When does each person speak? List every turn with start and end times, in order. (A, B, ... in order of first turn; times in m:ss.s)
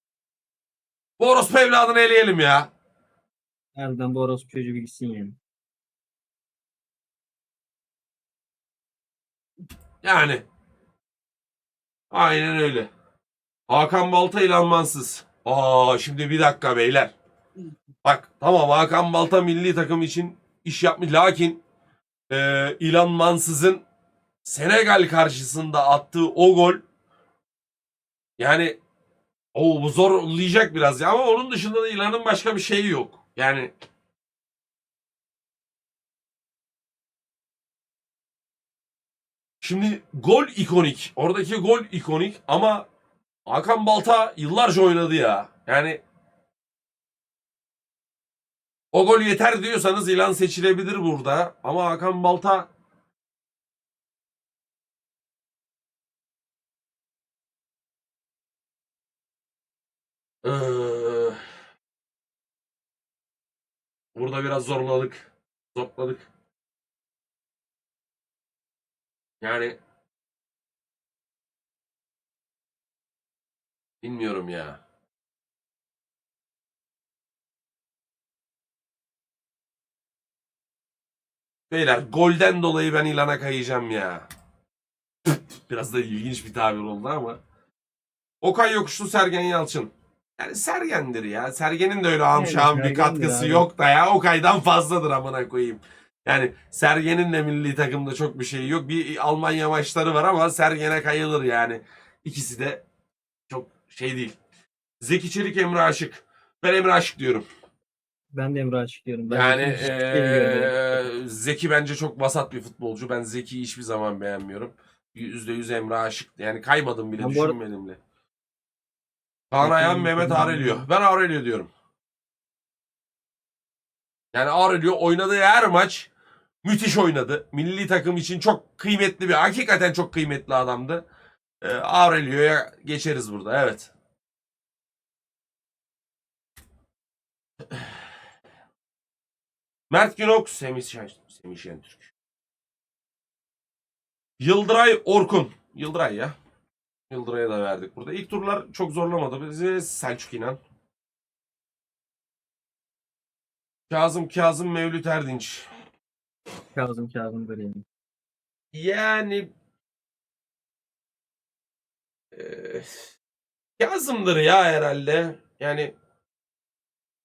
0:01.2-0:02.7 A
0:03.8-0:05.4 B
0:10.0-0:10.4 A
0:12.1-0:12.9 A
0:13.7-0:17.1 A
0:18.0-0:21.6 A
0:22.3-0:23.8 A
0:24.4-0:26.8 A
0:28.4-0:28.8 A
0:29.5-0:33.7 A
0:39.6-0:42.8 A
0:43.5-0:46.0 A
0:48.9-0:52.7 A
1:00.4-1:01.4 A
1:04.1-1:06.3 A
1:09.4-1:09.8 A
1:14.0-1:14.8 A
1:21.7-1:24.2 A
1:25.3-1:27.4 A
1:28.4-1:42.8 A
1:32.3-1:33.6 B
1:43.5-1:44.4 A
1:45.0-1:47.4 A
1:48.3-1:51.1 B
1:49.3-1:58.0 A
1:57.2-1:57.6 B
1:59.5-2:01.7 A
1:59.6-2:00.8 B
2:04.3-2:06.1 A
2:06.6-2:11.0 A
2:11.6-2:13.9 A
2:19.9-2:22.1 A
2:24.4-2:26.3 A
2:27.1-2:30.6 A
2:33.9-2:35.6 A
2:36.7-2:37.8 B
2:38.7-2:39.5 A
2:42.3-2:43.1 A
2:43.8-2:45.9 A